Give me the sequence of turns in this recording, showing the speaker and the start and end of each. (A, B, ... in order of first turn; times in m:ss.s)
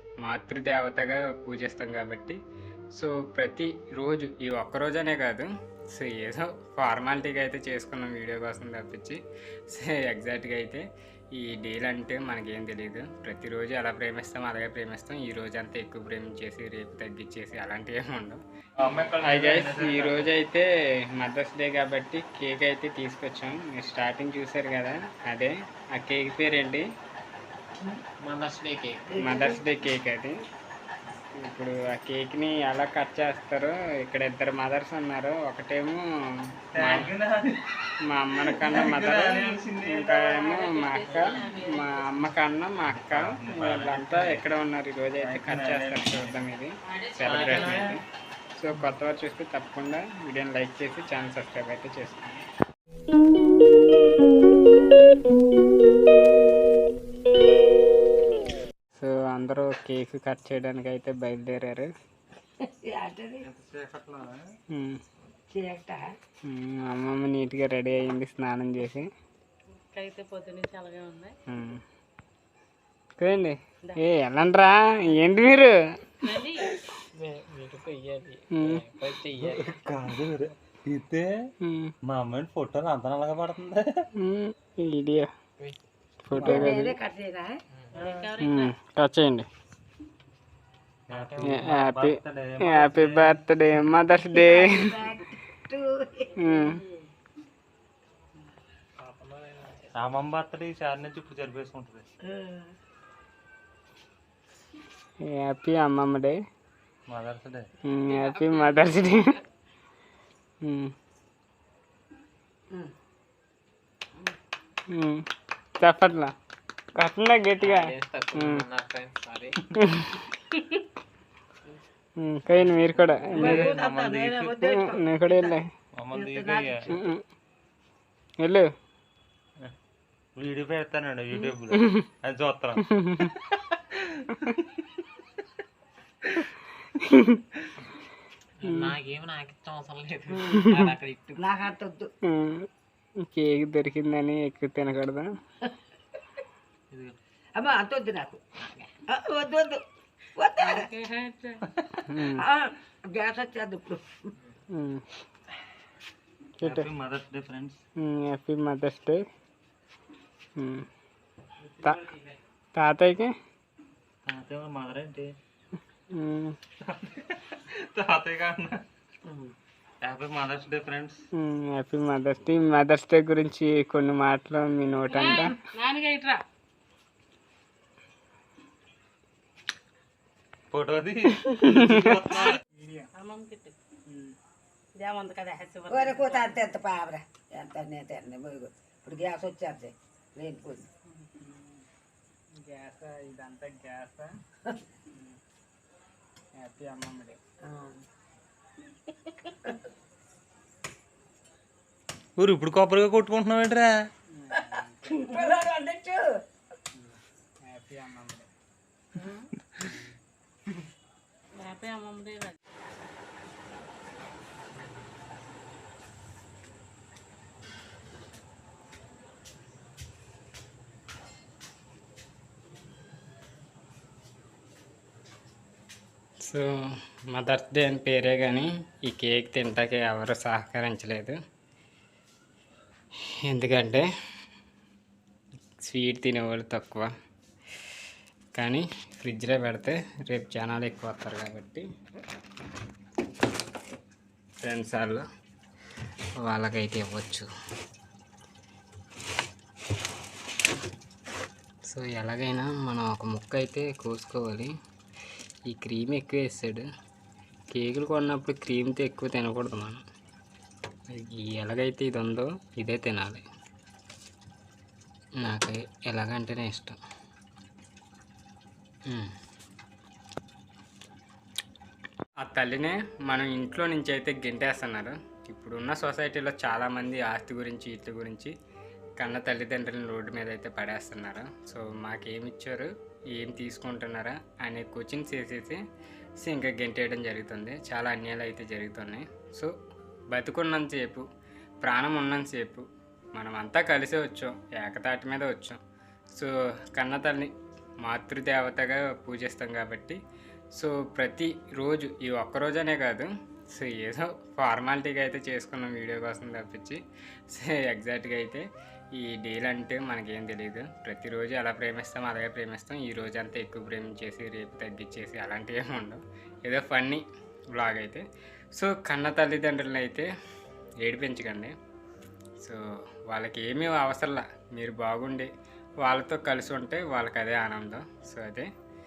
0:00.2-0:02.4 A
0:03.0-0:10.8 A
0:11.4-0:18.4 A
0:18.8-0:20.3 B
0:19.2-0:26.8 A
0:28.2-0:29.1 C
0:29.1-0:29.6 D
0:29.2-0:30.4 A
0:31.4-0:36.0 A
0:36.7-0:37.1 A
0:36.7-0:37.7 B
0:38.0-0:48.0 A
0:38.4-0:40.4 B
0:40.4-0:42.2 E
0:42.8-0:44.5 B
0:45.2-0:46.4 B
0:46.9-0:47.8 E
0:47.2-0:48.0 B
0:48.6-0:52.4 A
0:59.0-1:01.9 A
1:02.6-1:03.4 D
1:03.4-1:04.4 B
1:04.7-1:05.0 A
1:05.5-1:06.0 D
1:06.5-1:09.1 A
1:09.9-1:11.3 E
1:11.5-1:11.8 A
1:13.2-1:16.1 A
1:16.2-1:16.7 E
1:17.2-1:19.7 C
1:18.5-1:18.8 A
1:19.4-1:21.3 B
1:21.6-1:21.9 A
1:22.1-1:24.1 B
1:24.2-1:25.3 A
1:26.2-1:27.0 A
1:26.4-1:28.0 D
1:27.9-1:28.7 E
1:28.4-1:29.5 A
1:31.1-1:33.5 B
1:31.2-1:31.5 C
1:31.4-1:35.0 A
1:34.3-1:36.7 D
1:36.4-1:36.8 A
1:39.0-1:39.8 C
1:39.9-1:42.1 B
1:42.2-1:42.7 D
1:45.2-1:46.4 A
1:47.1-1:47.7 B
1:47.8-1:49.4 A
1:50.6-1:50.9 A
1:54.9-1:55.2 A
1:55.8-1:56.3 A
1:57.0-1:58.6 A
1:57.6-1:59.6 C
1:59.8-2:00.3 A
2:02.2-2:03.7 A
2:03.3-2:05.6 D
2:03.5-2:04.6 B
2:04.6-2:05.7 A
2:06.0-2:06.9 B
2:06.1-2:06.9 D
2:06.9-2:07.2 A
2:08.4-2:08.7 A
2:10.4-2:12.9 B
2:11.7-2:12.0 A
2:12.8-2:13.4 A
2:13.4-2:14.5 B
2:17.0-2:17.4 A
2:18.6-2:21.4 C
2:18.7-2:18.9 A
2:20.5-2:20.8 A
2:21.4-2:22.1 D
2:22.3-2:22.7 A
2:23.3-2:25.3 A
2:27.6-2:29.8 D
2:30.4-2:30.9 D
2:30.6-2:31.6 E
2:32.0-2:32.4 A
2:32.3-2:34.3 D
2:34.7-2:35.0 A
2:36.6-2:36.9 A
2:36.6-2:37.8 B
2:38.0-2:39.2 A
2:40.6-2:40.9 A
2:42.8-2:43.3 A
2:44.3-2:45.3 B
2:46.1-2:46.6 A
2:46.8-2:48.8 B
2:49.3-2:49.5 D
2:50.0-2:51.2 B
2:51.4-2:55.6 A
2:55.1-2:56.4 E
3:00.7-3:02.6 B
3:01.5-3:02.1 A
3:02.7-3:03.1 A
3:03.1-3:03.8 E
3:04.1-3:04.4 A
3:05.0-3:06.6 E
3:05.9-3:10.9 D
3:11.4-3:11.9 A
3:12.6-3:14.3 A
3:16.6-3:17.4 A
3:17.6-3:18.0 D
3:22.4-3:24.1 B
3:24.3-3:25.5 A
3:25.1-3:26.3 D
3:27.0-3:28.5 A
3:29.8-3:30.2 A
3:31.6-3:32.6 E
3:47.3-3:51.4 A
3:53.5-3:54.1 A
3:55.8-3:57.1 A
3:58.6-4:01.8 A
4:04.6-4:05.2 A
4:06.4-4:07.5 A
4:11.9-4:14.7 A
4:15.7-4:16.9 A
4:17.7-4:20.0 A
4:21.1-4:23.4 A
4:25.4-4:27.0 A
4:32.4-4:38.5 A
4:39.2-4:45.8 A
4:46.4-4:49.7 A
4:50.3-4:51.2 A
4:51.8-4:55.8 A
4:56.4-4:57.5 A
4:58.0-5:00.2 A
5:00.8-5:07.0 A
5:07.5-5:08.7 A
5:09.2-5:17.2 A
5:17.8-5:18.2 A
5:18.8-5:20.3 A
5:21.0-5:21.7 A
5:23.3-5:25.5 A
5:26.0-5:28.7 A